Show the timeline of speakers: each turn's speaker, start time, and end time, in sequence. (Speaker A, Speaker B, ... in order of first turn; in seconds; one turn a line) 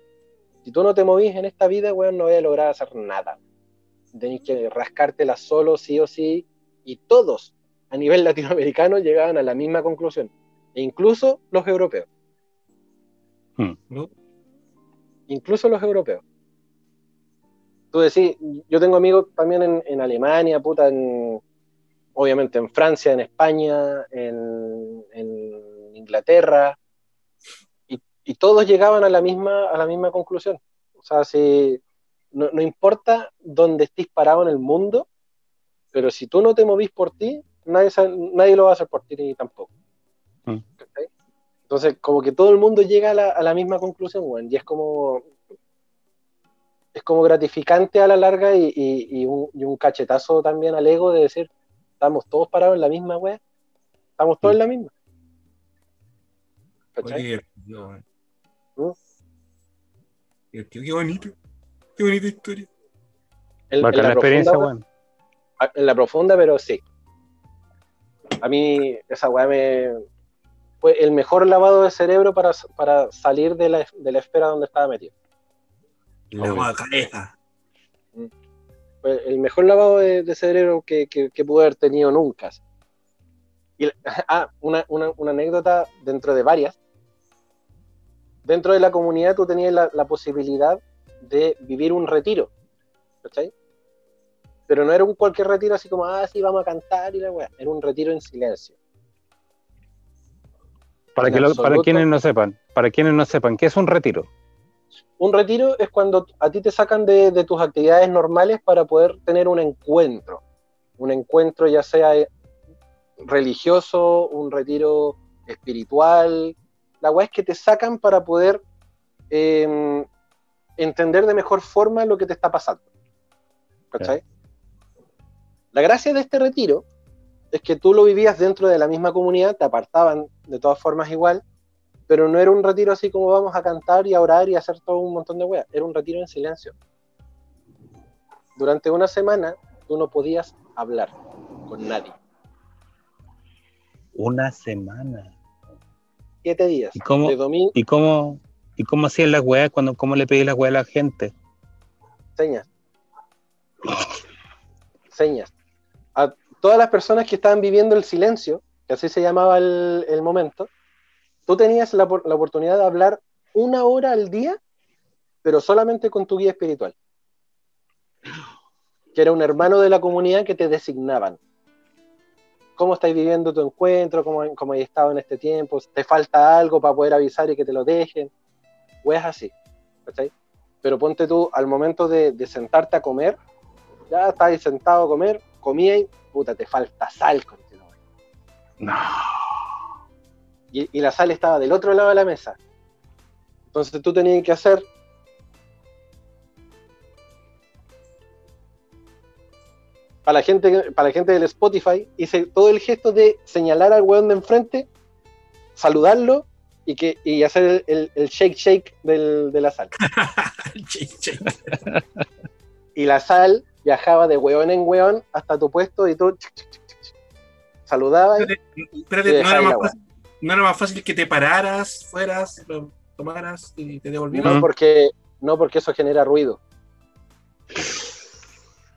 Speaker A: 0.6-3.4
Speaker A: 4.1-12.1
Speaker A: 15.3-16.2
Speaker A: 17.9-21.4
Speaker A: 22.1-26.8
Speaker A: 27.9-31.8
Speaker A: 32.3-35.1
Speaker A: 35.9-39.7
Speaker A: 40.8-41.1
Speaker A: 41.7-45.3
Speaker A: 46.9-53.4
Speaker A: 54.2-54.9
Speaker A: 57.0-57.2
Speaker B: 57.0-58.0
Speaker B: 60.5-61.3
Speaker B: 62.0-62.7
Speaker A: 63.7-64.7
Speaker C: 63.8-64.8
Speaker A: 65.6-66.8
Speaker A: 68.4-70.0
Speaker A: 70.8-75.1
Speaker B: 76.3-77.3
Speaker C: 76.4-76.7
Speaker A: 79.0-82.6
Speaker A: 83.8-86.8
Speaker A: 88.4-92.5
Speaker A: 93.2-93.5
Speaker A: 94.7-98.8
Speaker C: 101.2-104.3
Speaker A: 101.2-102.0
Speaker A: 105.2-110.4
Speaker A: 111.0-112.3
Speaker A: 113.2-118.6
Speaker A: 119.3-120.1
Speaker A: 120.8-122.8
Speaker A: 123.9-124.2
Speaker A: 125.7-126.8
Speaker A: 127.5-131.4
Speaker A: 132.1-136.7
Speaker A: 138.6-141.1
Speaker A: 141.7-142.2
Speaker C: 144.1-145.3
Speaker A: 146.4-147.7
Speaker C: 146.9-151.3
Speaker A: 152.3-152.7
Speaker A: 155.1-155.5
Speaker A: 156.2-160.7
Speaker A: 161.5-164.6
Speaker A: 165.4-166.9
Speaker A: 169.1-171.4
Speaker A: 172.8-178.3
Speaker A: 179.0-179.5
Speaker A: 180.1-180.3
Speaker A: 180.8-183.4
Speaker A: 184.1-187.8
Speaker C: 188.8-189.7
Speaker A: 190.7-192.6
Speaker A: 193.7-194.8
Speaker A: 200.2-204.9
Speaker A: 205.8-209.9
Speaker B: 210.0-211.8
Speaker A: 212.9-217.1
Speaker A: 217.9-218.5
Speaker B: 218.4-224.6
Speaker A: 219.2-219.9
Speaker A: 224.3-226.6